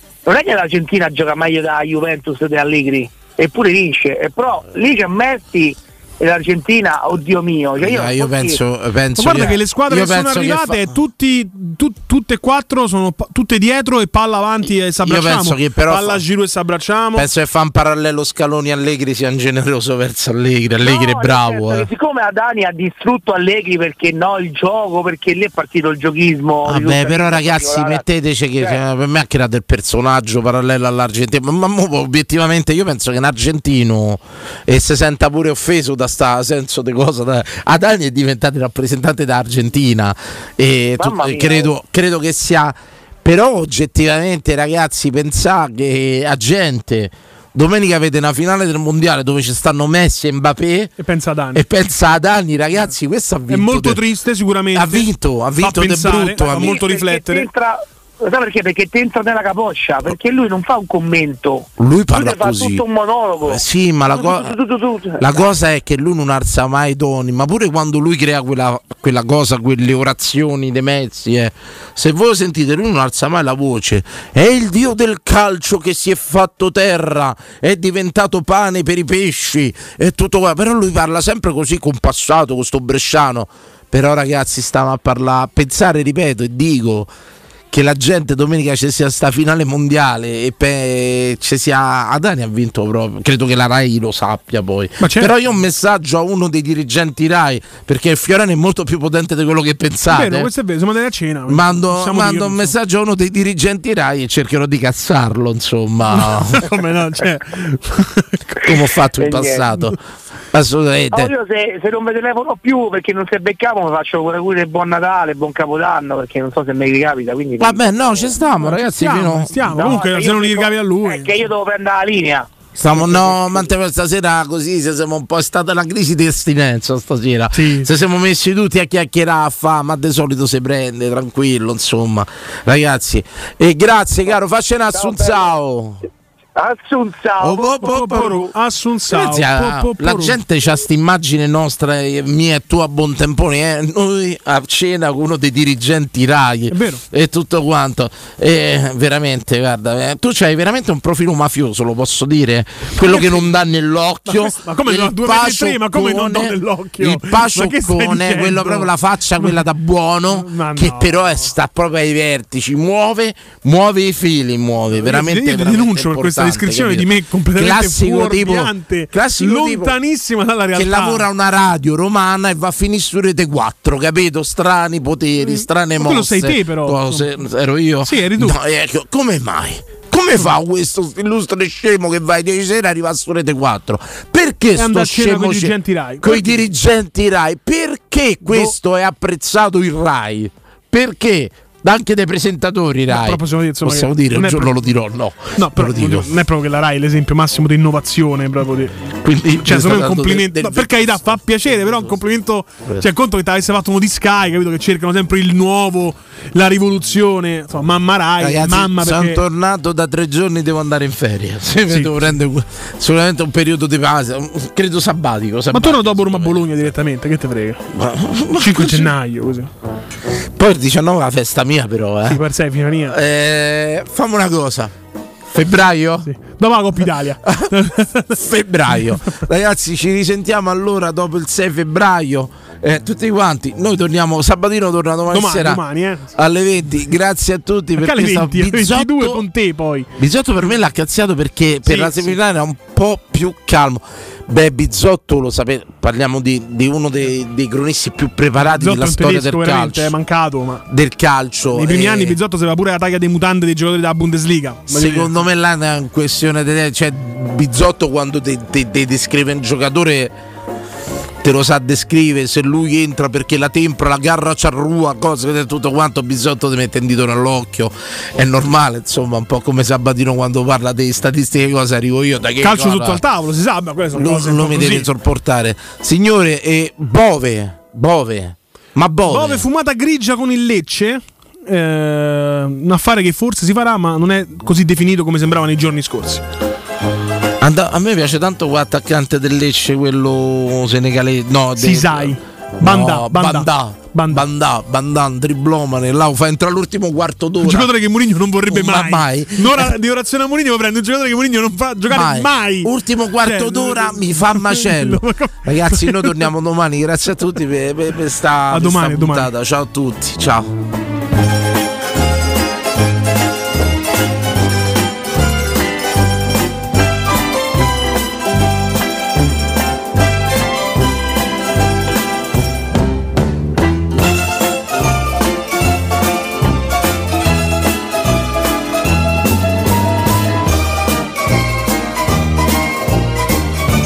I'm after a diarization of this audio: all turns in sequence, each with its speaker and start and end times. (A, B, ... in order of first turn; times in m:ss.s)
0:00.2-0:08.6 A
0:07.8-0:10.9 B
0:09.2-0:17.3 C
0:15.0-0:16.2 B
0:17.1-0:21.9 B
0:20.8-0:28.0 A
0:26.6-0:50.9 B
0:41.0-0:41.7 A
0:51.0-0:51.6 C
0:51.5-0:54.0 B
0:53.5-0:57.5 C
0:54.7-0:56.8 B
0:56.4-1:03.6 A
1:01.8-1:02.8 B
1:03.4-1:04.5 B
1:04.1-1:05.4 A
1:05.2-1:27.1 B
1:27.7-1:40.5 B
1:35.0-1:35.3 C
1:40.1-1:42.7 C
1:41.5-1:46.6 B
1:46.1-1:48.6 C
1:48.6-1:50.0 B
1:49.2-1:49.6 A
1:50.5-1:51.3 B
1:51.1-1:58.2 A
1:57.6-1:59.9 B
1:58.6-2:01.3 C
1:59.7-2:02.5 A
2:02.8-2:16.0 B
2:07.5-2:07.9 C
2:14.9-2:15.4 A
2:16.6-2:17.7 A
2:17.4-2:18.4 B
2:17.8-2:20.4 C
2:19.1-2:49.9 B
2:26.7-2:27.0 C
2:33.0-2:33.5 C
2:34.3-2:39.6 C
2:40.3-2:41.3 C
2:45.0-2:51.2 C
2:50.7-3:16.3 B
2:55.4-2:57.3 C
2:58.0-2:58.6 C
3:04.8-3:06.6 C
3:08.4-3:08.7 C
3:13.1-3:14.8 C
3:15.6-3:19.0 C
3:19.2-3:22.2 B
3:19.6-3:29.4 C
3:28.4-3:36.7 B
3:35.7-3:37.8 C
3:37.9-3:39.1 B
3:38.6-3:39.7 C
3:40.6-3:42.4 B
3:42.3-3:43.2 C
3:43.1-3:44.9 B
3:45.5-3:46.3 B
3:46.2-3:48.4 C
3:47.4-3:47.7 B
3:48.3-3:55.8 B
3:55.3-3:56.3 C
3:56.3-3:59.4 B
3:58.0-4:00.1 C
4:00.2-4:10.1 B
4:01.8-4:02.4 C
4:08.6-4:10.8 C
4:10.9-4:12.4 B
4:11.7-4:15.3 C
4:14.9-4:20.3 B
4:21.4-4:33.2 B
4:32.6-4:35.1 C
4:34.1-4:39.6 B
4:39.3-4:46.4 C
4:47.6-4:57.9 B
4:51.8-4:54.4 C
4:57.6-5:06.4 C
4:58.7-4:59.9 B
5:02.1-5:10.7 B
5:08.7-5:09.5 C